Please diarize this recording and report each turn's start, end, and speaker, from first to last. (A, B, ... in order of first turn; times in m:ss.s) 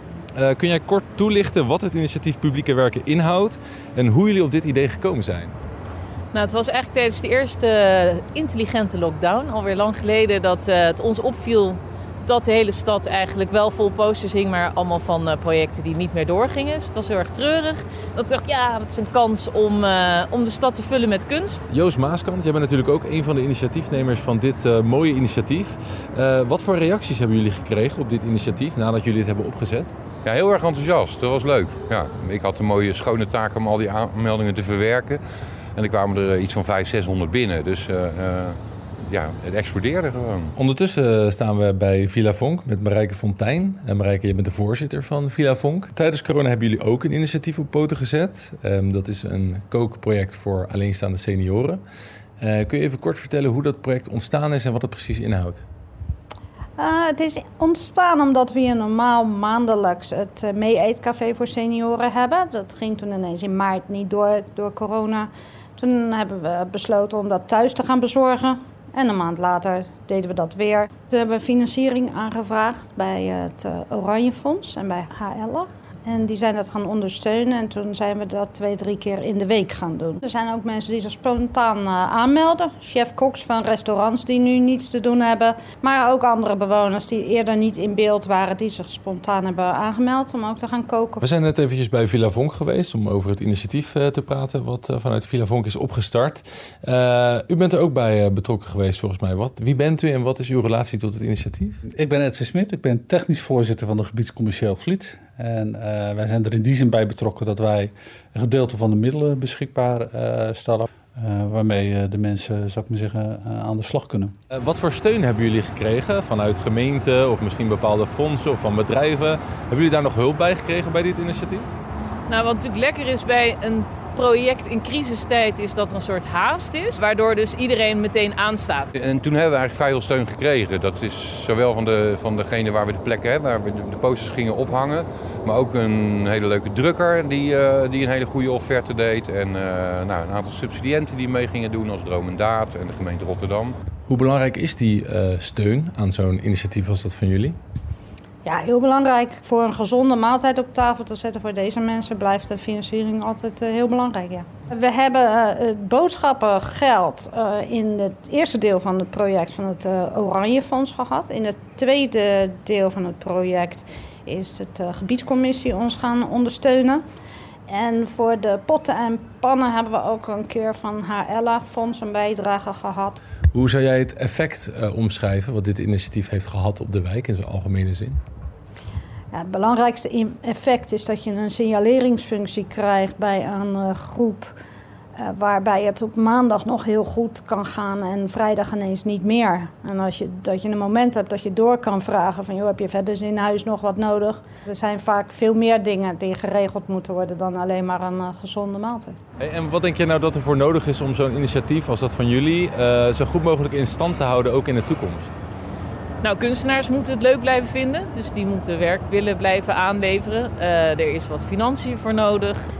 0:00.4-0:05.5 A
0:06.3-0:21.7 B
0:21.7-0:29.9 A
0:30.2-0:35.2 C
0:35.8-0:40.5 C
0:40.6-0:51.8 A
0:52.4-0:55.6 A
0:56.8-1:31.2 D
1:31.2-1:41.8 A
1:41.9-1:54.3 E
1:54.5-2:01.7 A
2:02.3-2:08.9 B
2:09.0-2:23.8 C
2:24.1-2:27.6 A
2:28.4-2:47.0 D
2:47.7-2:53.2 D
2:53.5-2:58.2 A
2:59.3-3:04.5 D
3:05.2-3:19.2 D
3:19.4-3:25.3 A
3:26.2-3:32.6 B